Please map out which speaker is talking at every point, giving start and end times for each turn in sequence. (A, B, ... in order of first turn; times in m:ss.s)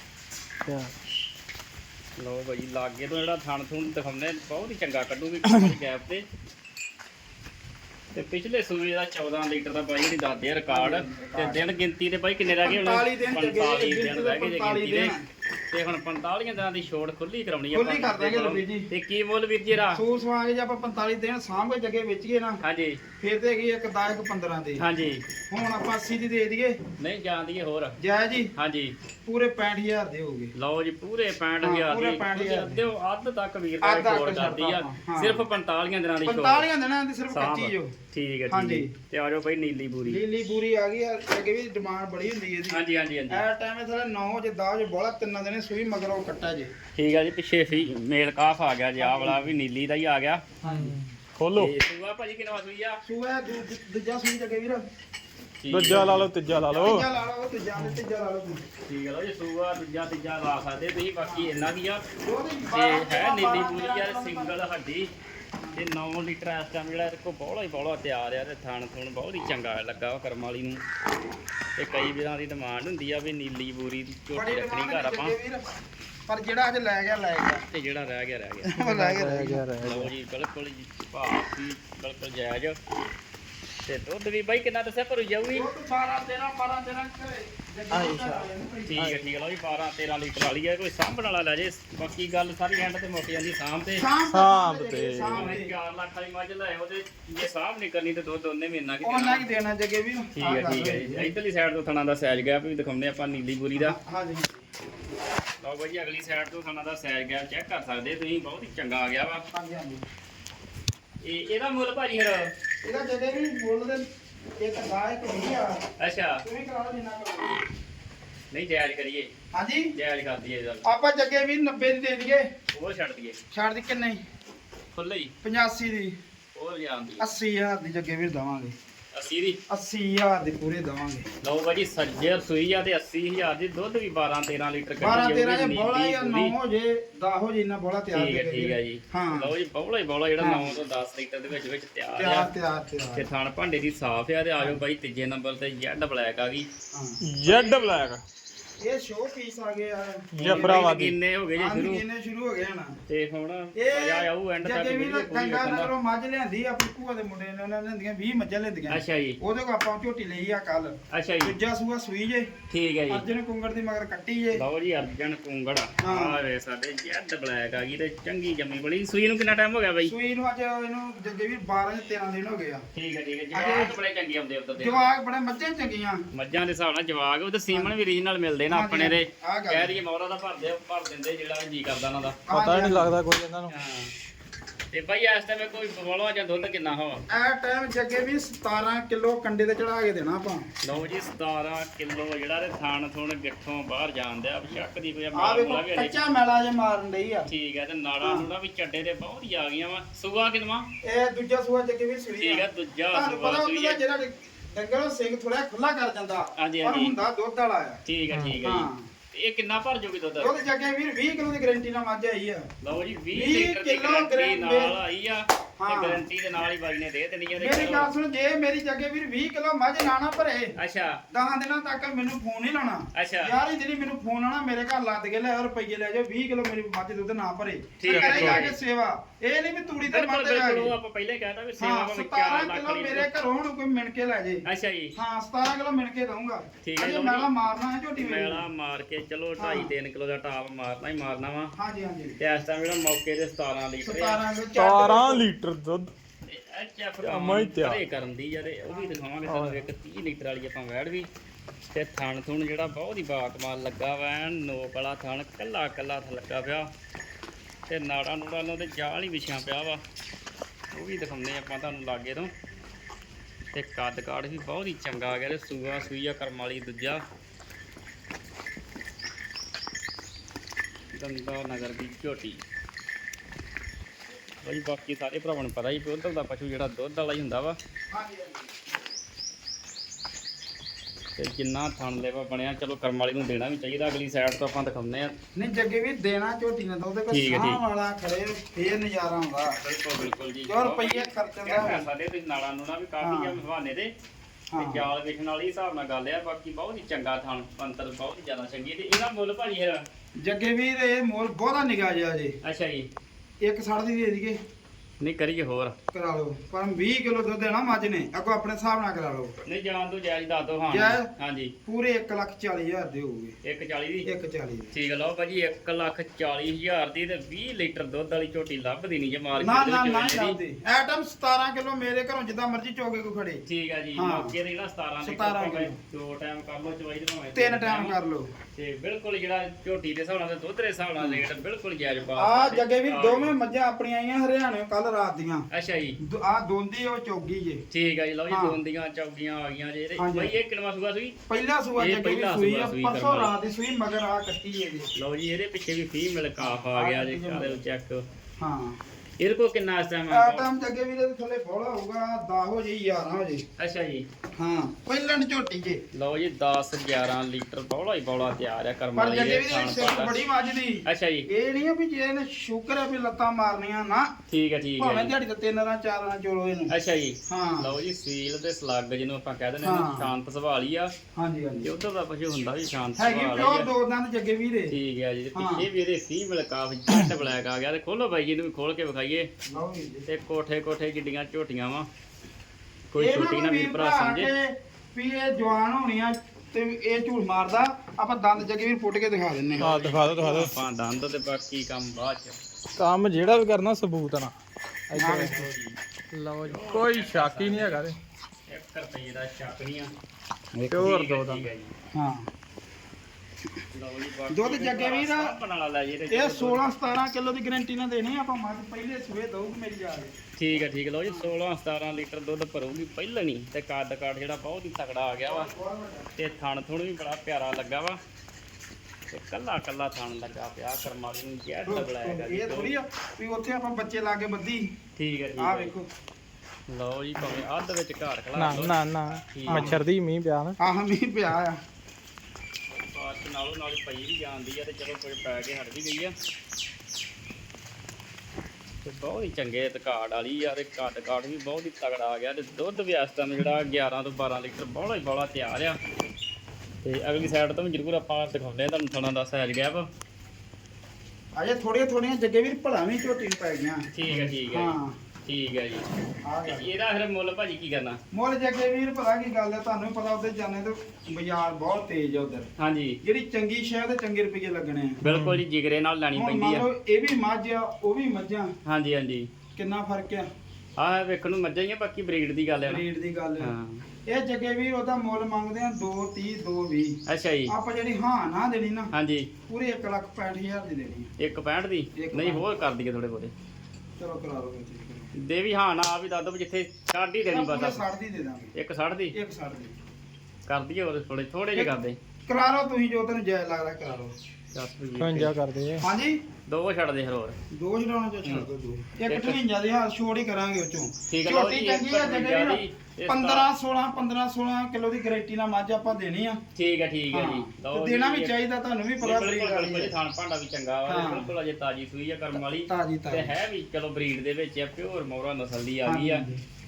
0:00.6-0:00.9 A
0:02.2-0:06.2 B
0:08.1-0:15.1 B
0:10.7-0:11.6 C
0:12.6-0:15.2 C
0:15.7-0:20.0 B
0:17.7-0:18.9 C
0:19.8-0:22.6 C
0:22.6-0:23.0 B
0:23.2-0:24.8 C
0:24.8-0:25.2 B
0:25.5-0:26.8 C
0:27.0-0:28.0 B
0:28.0-0:28.5 C
0:28.6-0:28.9 B
0:29.2-0:30.5 C
0:30.5-0:36.7 B
0:31.6-0:32.8 C
0:33.8-0:35.4 C
0:36.2-0:37.9 C
0:37.3-0:40.2 B
0:38.5-0:38.9 C
0:40.0-0:46.7 C
0:42.7-0:43.4 B
0:47.0-0:50.4 B
0:49.0-0:49.5 C
0:50.6-0:50.9 C
0:50.6-0:51.7 A
0:51.5-0:53.0 B
0:53.0-0:54.8 C
0:55.6-0:56.3 B
0:55.7-0:57.1 A
0:56.7-0:58.6 C
0:58.8-1:02.0 B
1:01.2-1:01.5 C
1:02.2-1:04.5 C
1:02.7-1:05.1 B
1:05.8-1:10.8 B
1:11.8-1:15.3 B
1:14.3-1:15.6 C
1:16.3-1:17.6 C
1:17.7-1:18.7 B
1:18.7-1:19.7 C
1:18.7-1:20.1 A
1:19.8-1:22.8 B
1:23.8-1:25.7 B
1:25.5-1:29.1 C
1:27.9-1:28.4 A
1:28.9-1:34.0 B
1:34.0-1:35.7 C
1:34.3-1:35.5 A
1:35.2-1:39.4 B
1:39.0-1:41.3 C
1:40.3-1:44.0 B
1:43.8-1:44.7 C
1:45.6-1:49.4 B
1:49.5-1:50.0 C
1:51.2-1:52.5 B
1:52.8-1:54.0 C
1:54.6-1:55.8 C
1:56.0-1:56.4 B
1:56.4-1:57.6 C
1:58.5-1:59.3 B
1:59.5-1:59.9 C
1:59.9-2:00.8 B
2:00.8-2:02.4 C
2:02.7-2:03.4 B
2:03.5-2:04.2 C
2:05.0-2:05.3 B
2:05.4-2:06.1 C
2:06.5-2:07.2 B
2:07.2-2:08.7 C
2:09.1-2:09.6 B
2:09.7-2:11.2 C
2:11.4-2:16.5 B
2:15.0-2:19.5 C
2:18.1-2:22.5 B
2:20.4-2:20.8 C
2:22.2-2:23.2 C
2:23.1-2:26.7 B
2:26.9-2:27.2 C
2:27.2-2:28.2 A
2:27.4-2:27.9 B
2:28.8-2:30.9 C
2:30.3-2:31.1 A
2:30.4-2:32.0 B
2:31.6-2:33.0 C
2:33.1-2:35.9 B
2:33.7-2:42.5 C
2:38.9-2:39.4 B
2:41.1-2:41.5 B
2:42.7-2:43.2 B
2:43.1-2:44.6 C
2:44.5-2:50.1 B
2:46.0-2:46.4 C
2:50.0-2:52.8 C
2:52.9-2:55.0 B
2:53.5-2:53.9 C
2:54.8-2:56.2 C
2:56.3-3:02.4 B
2:58.7-2:59.9 C
3:02.5-3:03.2 C
3:02.5-3:03.7 A
3:03.7-3:04.1 B
3:04.9-3:07.2 B
3:07.3-3:10.7 C
3:10.8-3:16.2 B
3:15.3-3:17.5 C
3:17.5-3:20.9 B
3:18.2-3:18.5 C
3:21.0-3:28.0 C
3:22.4-3:24.0 B
3:26.6-3:27.1 B
3:28.0-3:30.5 B
3:28.6-3:29.1 C
3:30.4-3:32.6 C
3:32.8-3:38.1 B
3:33.3-3:35.0 C
3:35.8-3:36.2 C
3:37.5-3:40.7 C
3:40.8-3:41.2 B
3:41.3-3:50.9 C
3:43.1-3:43.5 B
3:48.0-3:48.8 B
3:48.1-3:48.6 A
3:50.0-3:53.3 B
3:51.8-3:54.6 C
3:54.6-3:55.1 B
3:55.1-3:58.6 C
3:56.8-3:57.5 B
3:58.2-4:01.7 B
3:59.6-3:59.9 C
4:01.8-4:02.4 C
4:02.4-4:04.4 B
4:04.0-4:05.5 C
4:04.7-4:06.1 A
4:06.4-4:11.3 B
4:07.2-4:08.0 A
4:08.9-4:09.2 C
4:09.4-4:09.8 A
4:11.8-4:16.9 B
4:17.9-4:20.0 B
4:20.9-4:22.5 B
4:23.7-4:27.2 B
4:31.1-4:32.6 B
4:34.6-4:37.8 B
4:38.1-4:38.7 C
4:41.4-4:45.3 B
4:45.6-4:49.8 C
4:47.3-4:47.8 B
4:49.8-4:54.1 B
4:50.6-4:52.0 C
4:53.2-4:53.6 C
4:54.7-4:55.1 C
4:54.8-5:00.0 B
5:00.4-5:02.5 C
5:02.6-5:03.1 B
5:03.6-5:04.6 C
5:05.2-5:06.0 B
5:06.1-5:09.5 C
5:09.6-5:11.7 B
5:10.9-5:11.3 C
5:11.8-5:13.6 C
5:13.6-5:14.3 B
5:14.2-5:14.9 C
5:14.9-5:20.6 B
5:19.6-5:23.6 C
5:23.7-5:28.2 B
5:24.2-5:24.5 C
5:25.2-5:26.0 C
5:27.5-5:28.5 C
5:28.7-5:33.5 B
5:31.2-5:31.5 C
5:32.4-5:35.7 C
5:35.7-5:36.2 B
5:36.2-5:37.8 C
5:37.9-5:41.4 B
5:38.5-5:38.8 C
5:40.2-5:40.5 C
5:41.5-5:45.1 C
5:42.0-5:43.5 B
5:45.2-5:48.2 B
5:46.6-5:47.8 C
5:48.6-5:49.0 C
5:49.4-5:50.7 B
5:50.3-5:53.6 C
5:53.8-5:54.3 B
5:54.6-5:56.0 C
5:56.1-6:00.3 B
5:59.2-6:04.3 C
6:01.0-6:01.5 B
6:04.5-6:05.3 B
6:05.0-6:06.9 C
6:06.9-6:11.1 B
6:07.5-6:07.9 C
6:09.8-6:10.3 C
6:11.4-6:11.9 C
6:11.8-6:13.9 B
6:13.2-6:14.9 C
6:14.9-6:19.5 B
6:15.5-6:15.9 C
6:19.7-6:20.2 C
6:20.3-6:22.1 B
6:23.1-6:24.5 B
6:23.2-6:29.9 C
6:29.7-6:32.6 B
6:29.8-6:30.7 A
6:33.0-6:34.5 A
6:35.1-6:35.6 A
6:35.2-6:35.7 C
6:35.2-6:36.0 B
6:36.3-6:38.2 A
6:36.6-6:38.1 B
6:38.7-6:40.1 B
6:40.7-6:41.6 C
6:40.9-6:41.9 B
6:42.1-6:42.5 C
6:43.9-6:46.9 B
6:44.5-6:45.5 C
6:46.3-6:50.3 C
6:50.6-6:55.7 B
6:51.2-6:51.5 C
6:55.4-6:56.3 C
6:56.4-6:58.2 B
6:59.3-7:02.9 B
7:01.8-7:04.8 C
7:05.2-7:05.9 B
7:05.6-7:06.1 C
7:06.9-7:10.0 B
7:08.5-7:10.8 A
7:09.7-7:10.0 C
7:10.8-7:11.8 C
7:12.9-7:16.3 B
7:19.0-7:26.0 B
7:27.0-7:30.1 B
7:31.6-7:35.1 C
7:34.1-7:36.0 B
7:36.4-7:36.9 C
7:36.6-7:38.2 B
7:38.3-7:42.7 C
7:42.8-7:43.2 B
7:43.2-7:45.2 C
7:45.2-7:45.6 A
7:45.2-7:46.8 B
7:46.3-7:48.7 C
7:48.8-7:49.5 B
7:49.7-7:50.5 C
7:51.0-7:53.0 B
7:52.8-7:53.7 C
7:53.6-7:54.0 B
7:54.2-7:59.1 C
7:57.3-7:57.7 B
7:59.1-7:59.5 B
7:59.7-8:01.3 C
8:01.4-8:03.5 B
8:02.2-8:02.6 C
8:04.2-8:05.3 C
8:05.3-8:08.0 B
8:07.5-8:08.7 C
8:08.7-8:09.3 B
8:09.3-8:10.0 C
8:10.7-8:12.2 B
8:12.5-8:14.3 C
8:14.7-8:15.5 B
8:15.2-8:16.0 A
8:16.0-8:16.4 C
8:16.7-8:17.6 B
8:17.7-8:26.6 C
8:19.3-8:19.6 B
8:21.3-8:23.7 B
8:26.7-8:28.5 B
8:27.3-8:30.1 C
8:29.2-8:36.4 B
8:31.1-8:31.5 C
8:32.9-8:33.5 C
8:36.0-8:36.6 C